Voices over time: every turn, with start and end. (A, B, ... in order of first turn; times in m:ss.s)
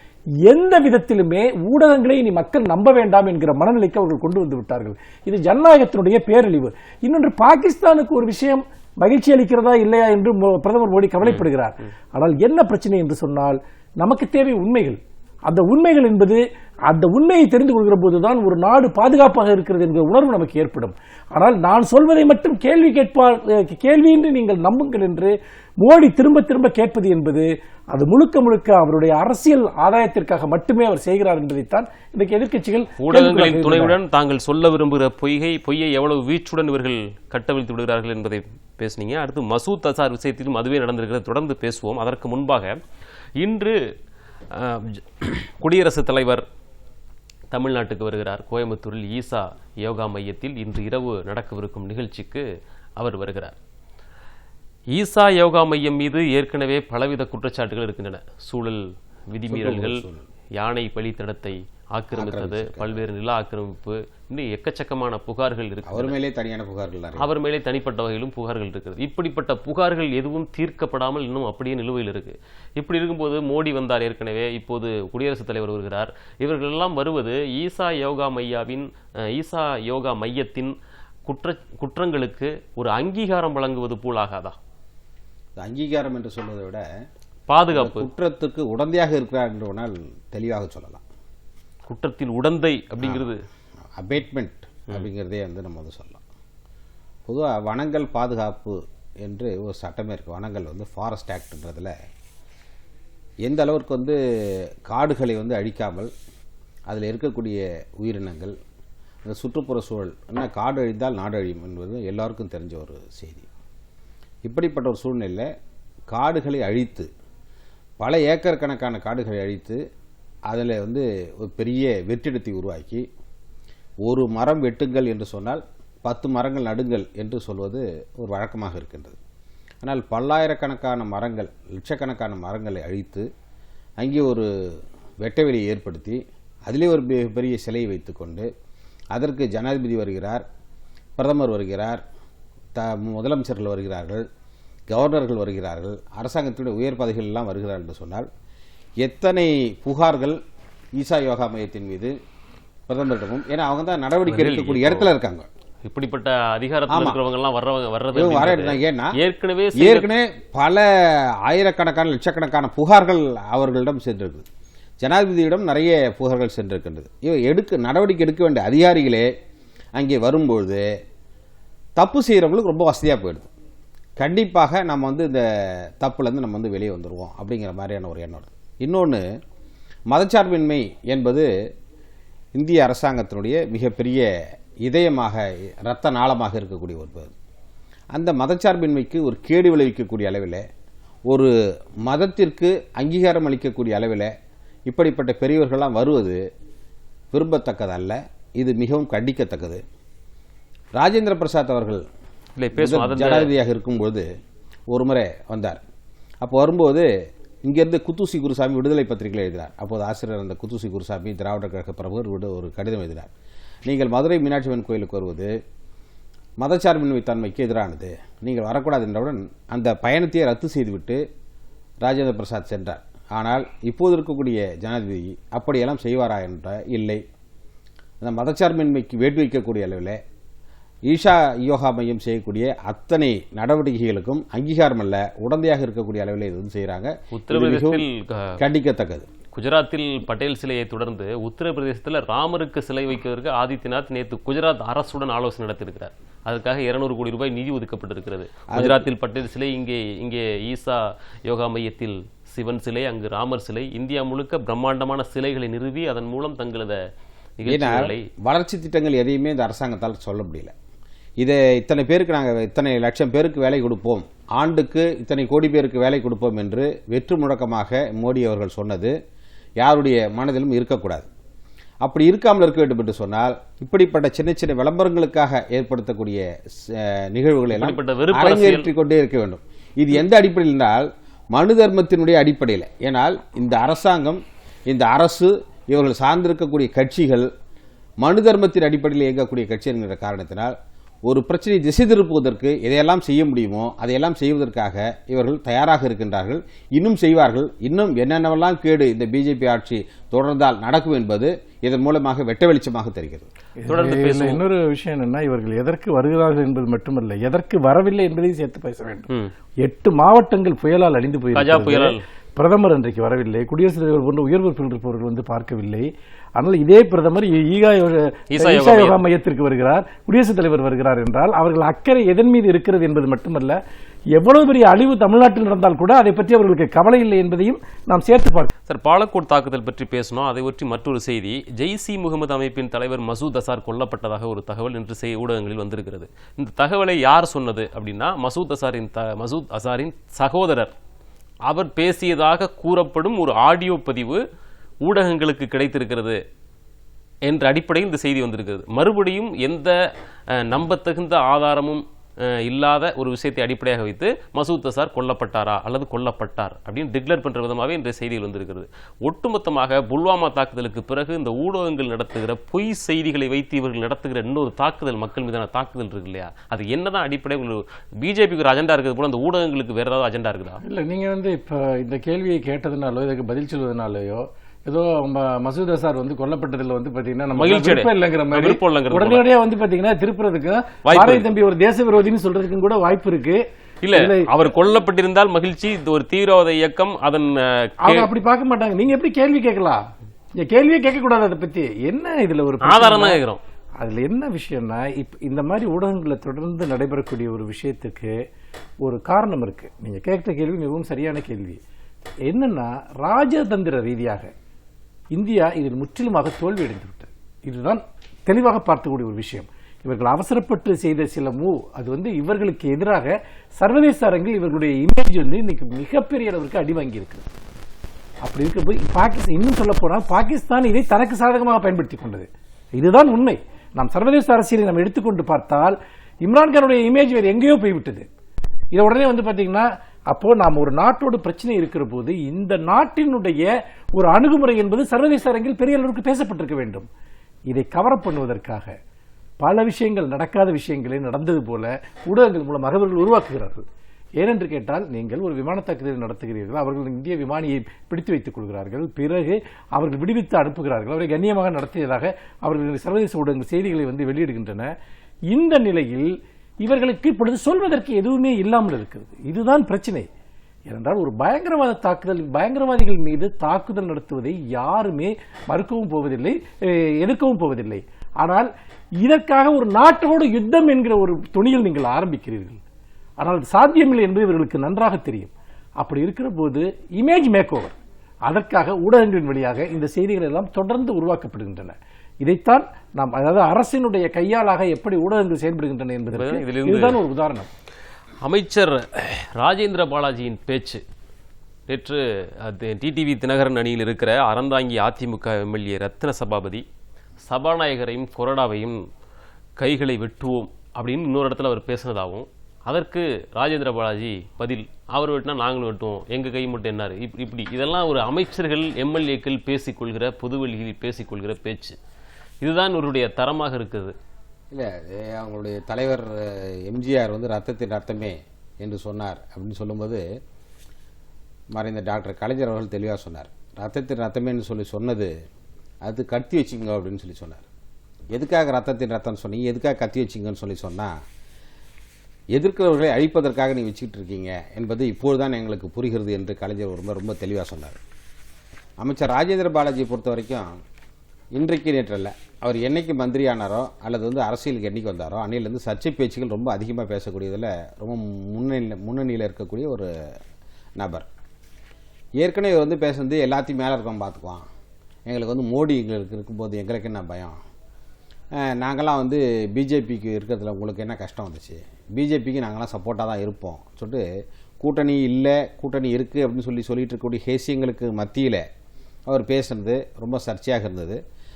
0:00.5-0:34.0 A
0:33.0-0:42.8 B
0:43.4-0:43.8 B
0:44.5-0:46.4 B
0:47.5-0:52.4 B
0:53.0-0:53.5 B
0:55.0-1:00.0 B
0:59.5-1:00.2 C
1:00.6-1:06.1 B
1:02.1-1:03.0 C
1:05.9-1:07.3 C
1:07.2-1:20.7 B
1:21.3-1:24.6 B
1:25.6-1:26.8 C
1:27.5-1:28.1 B
1:27.7-1:31.0 C
1:31.9-1:33.4 B
1:33.0-1:33.3 C
1:33.9-1:36.2 C
1:37.3-1:41.9 C
1:43.4-1:44.2 C
1:44.9-1:46.1 C
1:46.9-1:48.6 C
1:49.2-1:53.5 C
1:54.4-1:55.5 C
1:56.1-1:57.1 C
1:58.0-1:59.8 C
2:00.5-2:03.0 C
2:04.0-2:09.2 C
2:09.8-2:13.3 C
2:14.0-2:14.5 C
2:15.2-2:18.5 C
2:19.1-2:20.4 C
2:21.2-2:22.0 C
2:22.8-2:24.3 C
2:24.9-2:28.3 C
2:29.0-2:30.4 C
2:31.0-2:32.2 C
2:32.9-2:35.5 C
2:34.3-2:35.1 B
2:35.8-2:40.1 B
2:36.9-2:37.2 C
2:38.1-2:39.2 C
2:39.8-2:40.9 C
2:41.5-2:44.4 C
2:45.0-2:49.3 C
2:50.0-2:50.8 C
2:52.0-2:53.5 C
2:54.2-2:59.2 C
3:00.1-3:01.5 C
3:02.6-3:04.3 C
3:04.8-3:07.3 C
3:08.1-3:10.6 C
3:12.1-3:14.3 C
3:14.9-3:16.4 C
3:17.3-3:19.8 C
3:21.0-3:22.0 C
3:22.6-3:23.5 B
3:22.8-3:24.3 C
3:24.9-3:25.8 C
3:26.4-3:27.1 C
3:27.7-3:33.3 C
3:33.9-3:35.5 C
3:36.6-3:41.2 C
3:42.0-3:47.2 C
3:48.2-3:50.2 C
3:51.1-3:58.0 C
3:57.3-3:58.6 B
3:58.6-3:59.3 C
3:59.5-4:17.0 B
4:08.7-4:09.1 C
4:17.6-4:18.2 B
4:17.7-4:20.7 C
4:21.4-4:29.1 C
4:29.8-4:31.3 C
4:32.0-4:47.5 C
4:37.7-4:38.9 B
4:48.2-4:50.7 C
4:51.3-5:03.5 C
5:03.8-5:09.3 A
5:03.9-5:04.6 B
5:09.8-5:23.8 A
5:11.6-5:12.2 B
5:18.5-5:19.2 B
5:24.3-5:28.7 A
5:28.9-5:40.9 B
5:41.7-5:44.4 B
5:45.1-5:46.4 B
5:47.5-5:50.0 B
5:50.5-6:10.8 B
6:10.8-6:23.6 A
6:17.6-6:19.4 B
6:21.0-6:21.5 B
6:24.0-6:28.3 B
6:24.1-6:24.5 A
6:28.0-6:30.1 A
6:30.6-6:33.4 A
6:32.8-6:33.6 B
6:34.0-6:38.4 A
6:39.0-6:41.8 A
6:42.5-6:44.5 A
6:45.4-6:57.5 A
6:58.4-7:08.3 A
7:08.9-7:17.1 A
7:17.7-7:18.9 A
7:19.6-7:23.8 A
7:24.4-7:34.9 A
7:35.5-7:40.3 A
7:40.9-7:48.7 A
7:49.2-7:52.8 A
7:53.4-7:58.0 A
7:58.5-8:07.7 A
8:06.3-8:07.2 B
8:08.4-8:11.0 B
8:11.9-8:16.8 B
8:17.4-8:19.0 B
8:19.8-8:32.0 B
8:32.6-8:34.2 B
8:34.7-8:40.2 C
8:41.8-8:45.3 C
8:46.0-8:47.7 C
8:48.3-8:51.2 C
8:52.6-8:58.0 C
8:59.0-9:00.7 C
9:01.6-9:10.1 C
9:11.0-9:11.3 C
9:12.4-9:14.6 C
9:15.3-9:17.6 C
9:18.6-9:24.2 C
9:24.8-9:28.6 C
9:29.3-9:31.2 C